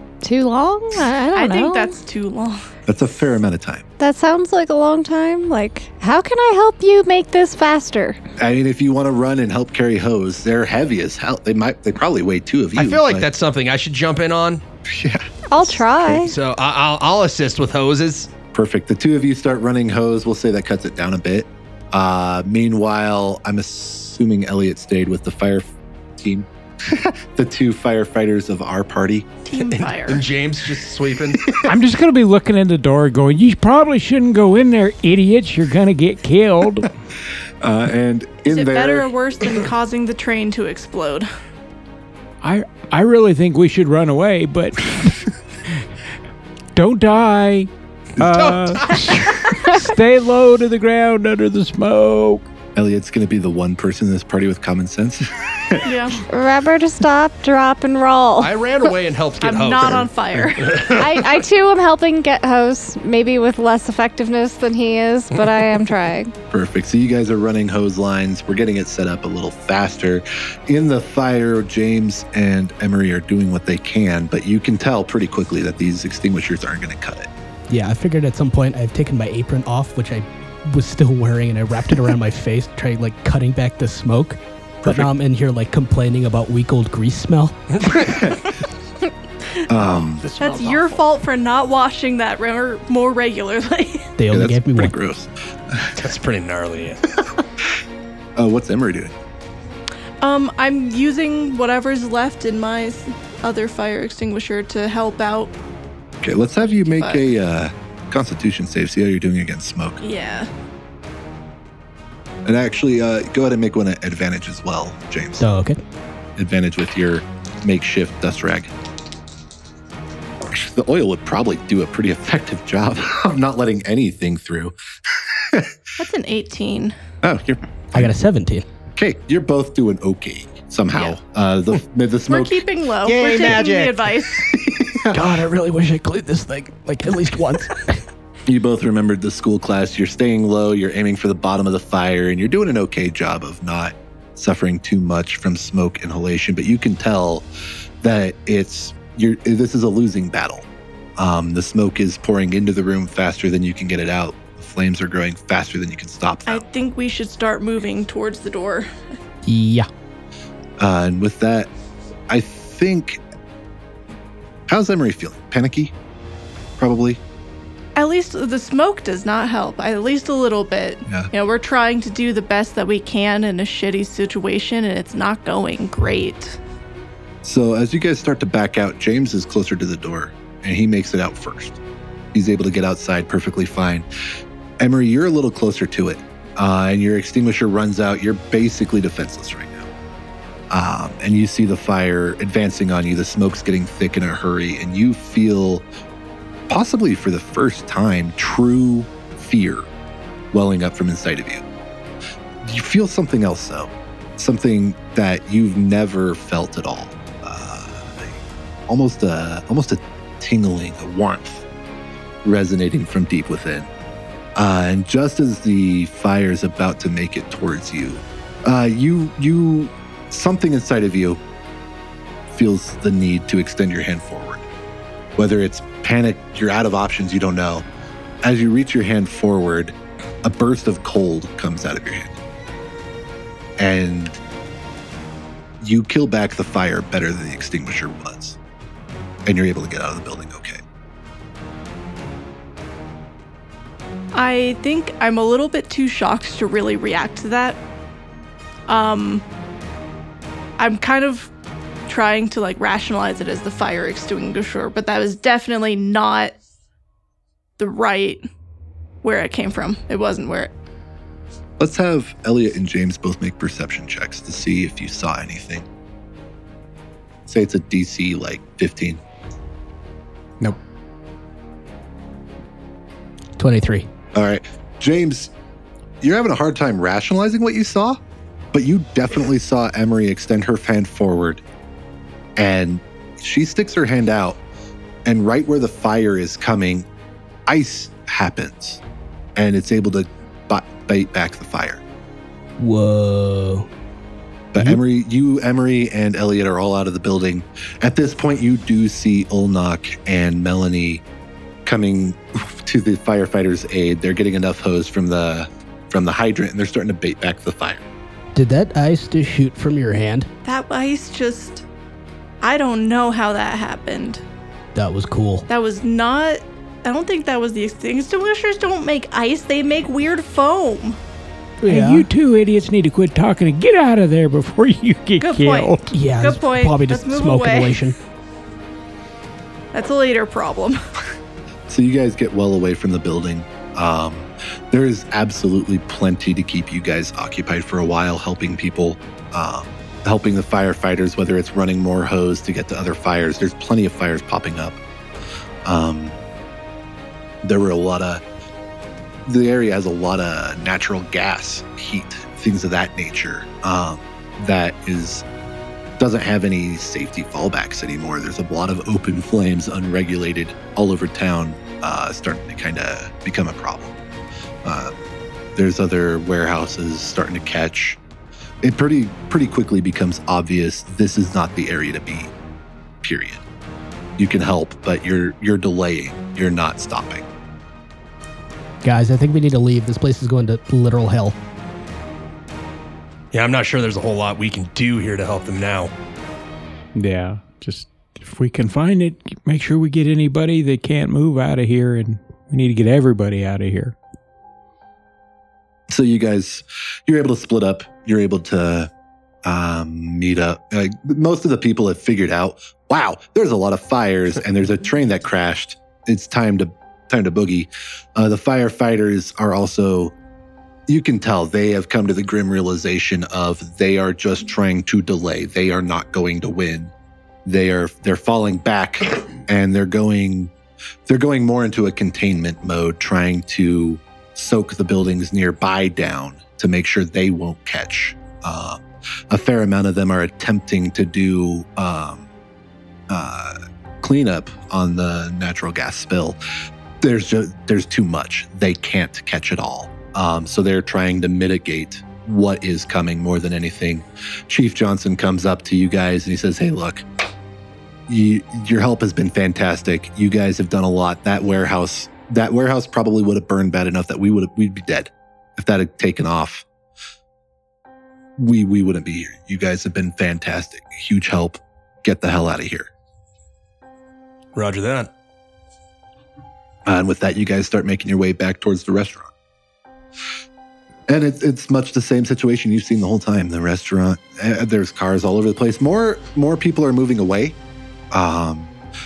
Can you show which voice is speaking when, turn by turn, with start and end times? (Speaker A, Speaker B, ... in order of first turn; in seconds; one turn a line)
Speaker A: 0.2-1.9
Speaker B: 1.3-2.6
Speaker C: 2.9-3.8
Speaker A: 4.0-8.2
Speaker C: 8.4-13.3
Speaker D: 12.8-14.6
Speaker C: 14.9-16.1
Speaker A: 15.5-16.3
Speaker D: 16.1-18.3
Speaker C: 18.5-29.6
Speaker B: 29.5-30.2
Speaker D: 29.9-31.5
Speaker C: 31.4-31.7
Speaker E: 31.6-36.9
Speaker C: 37.6-39.1
Speaker B: 38.5-41.3
Speaker E: 42.4-45.8
Speaker E: 46.7-52.4
Speaker D: 48.3-49.2
Speaker C: 52.8-55.9
Speaker B: 55.8-56.2
Speaker A: 56.2-58.5
Speaker D: 58.4-61.4
Speaker B: 59.4-60.8
Speaker A: 60.9-66.3
Speaker C: 66.5-77.3
Speaker F: 77.7-87.6
Speaker C: 84.8-85.1
Speaker D: 87.8-88.2
Speaker C: 88.0-88.4
Speaker C: 89.7-90.3
Speaker D: 89.8-90.8
Speaker B: 90.4-94.1
Speaker F: 94.2-94.9
Speaker C: 94.3-96.0
Speaker D: 96.0-97.0
Speaker C: 97.2-97.7
Speaker C: 98.4-99.1
Speaker B: 100.2-105.5
Speaker C: 106.2-110.0
Speaker B: 106.8-107.2
Speaker B: 110.0-110.5
Speaker C: 112.5-115.4
Speaker F: 115.4-115.8
Speaker C: 116.4-118.7
Speaker C: 120.5-125.8
Speaker B: 126.0-126.9
Speaker C: 127.2-128.1
Speaker F: 127.9-128.6
Speaker C: 128.9-132.6
Speaker B: 132.3-134.5
Speaker D: 133.0-134.0
Speaker C: 134.3-135.3
Speaker F: 135.1-138.0
Speaker C: 138.4-147.4
Speaker C: 148.0-150.7
Speaker C: 151.2-156.6
Speaker B: 156.4-159.1
Speaker F: 159.4-159.9
Speaker C: 160.8-161.7
Speaker C: 162.3-163.2
Speaker C: 164.7-165.9
Speaker C: 166.8-167.2
Speaker B: 167.9-176.6
Speaker C: 177.4-181.8
Speaker C: 182.3-184.1
Speaker C: 184.8-189.9
Speaker C: 190.7-195.8
Speaker C: 196.7-199.9
Speaker C: 200.5-201.6
Speaker C: 202.6-211.7
Speaker C: 212.4-213.9
Speaker C: 214.6-221.4
Speaker C: 222.5-224.7
Speaker C: 225.4-227.8
Speaker C: 228.4-232.4
Speaker C: 233.8-234.4
Speaker C: 235.8-238.6
Speaker C: 239.4-240.8
Speaker B: 244.3-247.8
Speaker B: 248.9-249.4
Speaker B: 250.8-251.5
Speaker B: 252.1-256.6
Speaker B: 257.8-258.4
Speaker B: 259.2-260.7
Speaker C: 261.8-265.9
Speaker C: 267.5-269.2
Speaker F: 273.6-274.1
Speaker C: 274.3-275.5
Speaker C: 276.2-278.2
Speaker C: 278.7-281.6
Speaker C: 282.6-284.6
Speaker C: 285.2-287.1
Speaker C: 287.7-289.0
Speaker C: 289.6-292.0
Speaker F: 292.8-293.9
Speaker C: 294.7-301.2
Speaker C: 301.9-308.0
Speaker F: 308.5-310.5
Speaker B: 310.6-311.8
Speaker B: 312.6-314.4
Speaker F: 314.9-315.7
Speaker B: 315.7-321.2
Speaker F: 321.8-322.3
Speaker E: 321.9-326.2
Speaker B: 325.4-328.0
Speaker F: 326.1-328.1
Speaker B: 329.9-331.0
Speaker C: 331.9-345.0
Speaker C: 345.8-346.4
Speaker C: 347.6-348.4
Speaker C: 349.4-355.4
Speaker C: 356.2-364.1
Speaker C: 364.8-365.1
Speaker C: 365.8-368.2
Speaker C: 368.8-372.5
Speaker C: 373.2-373.6
Speaker C: 374.4-377.4
Speaker F: 379.0-381.6
Speaker D: 383.5-386.1
Speaker E: 387.1-394.1
Speaker C: 396.1-399.1
Speaker C: 399.6-410.3
Speaker C: 411.1-417.1
Speaker C: 417.6-420.7
Speaker C: 421.3-432.5
Speaker C: 433.3-436.6
Speaker C: 437.2-447.2
Speaker C: 448.3-456.9
Speaker C: 458.6-463.1
Speaker D: 464.7-465.3
Speaker C: 467.1-469.5
Speaker C: 471.3-477.8
Speaker C: 478.3-478.9